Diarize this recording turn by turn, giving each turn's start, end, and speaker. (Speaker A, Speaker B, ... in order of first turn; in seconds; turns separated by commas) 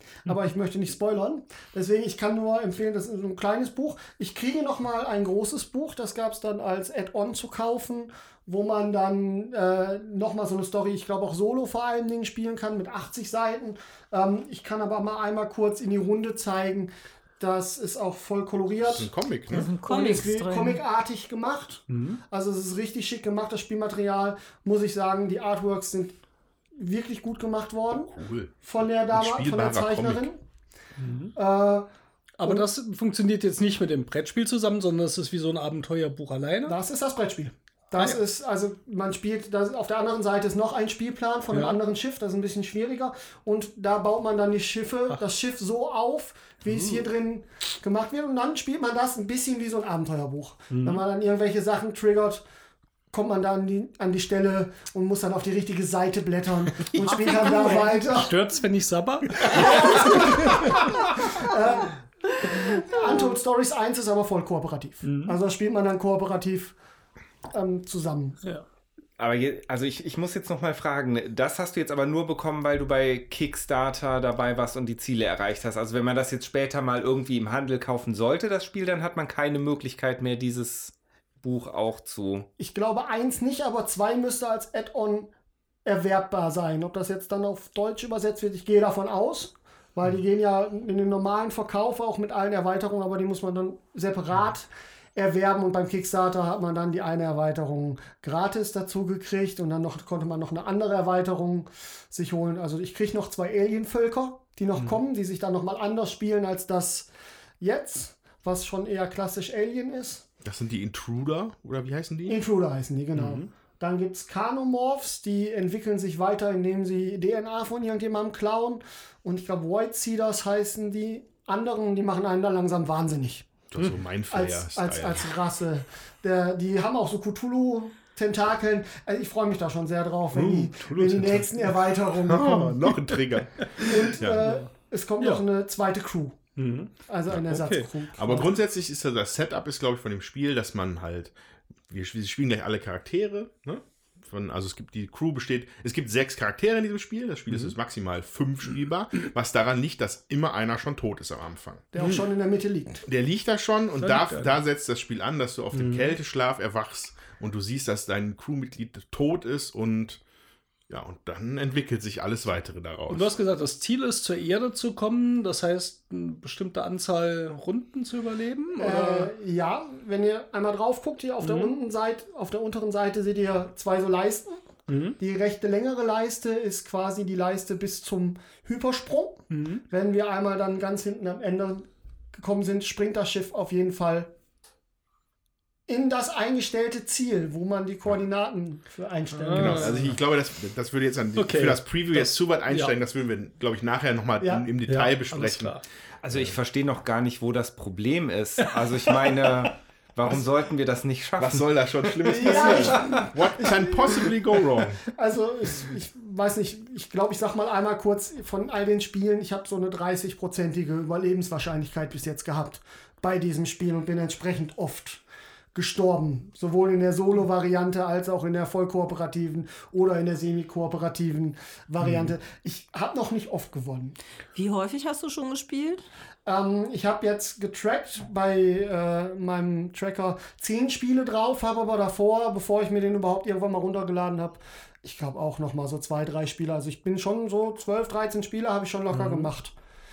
Speaker A: 0.3-19.1, Speaker B: 18.8-19.7, Speaker C: 19.5-20.8, Speaker A: 19.9-26.2, Speaker D: 21.9-22.2, Speaker A: 26.8-30.4, Speaker B: 28.1-28.5, Speaker B: 29.1-30.3, Speaker D: 31.0-31.3, Speaker A: 31.4-31.9, Speaker D: 32.4-36.8, Speaker A: 36.7-52.4, Speaker D: 41.5-41.8, Speaker D: 50.7-51.0, Speaker A: 53.1-58.3, Speaker D: 56.9-60.9, Speaker A: 59.5-66.8, Speaker D: 65.0-65.4, Speaker A: 67.5-68.4, Speaker E: 69.2-82.5, Speaker A: 82.6-85.3, Speaker A: 85.8-107.1, Speaker A: 107.6-110.3, Speaker B: 110.4-112.4, Speaker A: 112.3-123.6, Speaker D: 113.2-113.5, Speaker B: 123.7-125.3, Speaker A: 124.3-132.8, Speaker D: 130.3-131.8, Speaker B: 132.2-134.6, Speaker D: 133.1-134.7, Speaker A: 133.8-136.4, Speaker D: 136.6-136.9, Speaker A: 137.1-138.5, Speaker D: 137.4-137.9, Speaker B: 138.1-141.3, Speaker B: 141.9-151.9, Speaker A: 151.9-153.1, Speaker B: 153.1-160.2, Speaker D: 154.0-154.6, Speaker D: 155.7-156.2, Speaker B: 160.9-163.3, Speaker D: 163.1-169.3, Speaker A: 168.8-184.3, Speaker D: 171.4-171.8, Speaker D: 174.9-175.2, Speaker D: 179.5-179.8, Speaker A: 185.9-190.1, Speaker D: 189.3-190.2, Speaker B: 189.6-195.8, Speaker D: 191.4-193.0, Speaker A: 194.4-194.7, Speaker D: 194.9-195.8, Speaker E: 196.2-201.6, Speaker B: 196.3-196.6, Speaker D: 198.6-199.7, Speaker B: 201.4-205.0, Speaker A: 202.3-204.3, Speaker A: 205.1-215.2, Speaker A: 215.7-224.2, Speaker D: 222.0-222.3, Speaker C: 224.6-226.0, Speaker A: 226.5-239.8, Speaker D: 239.1-239.5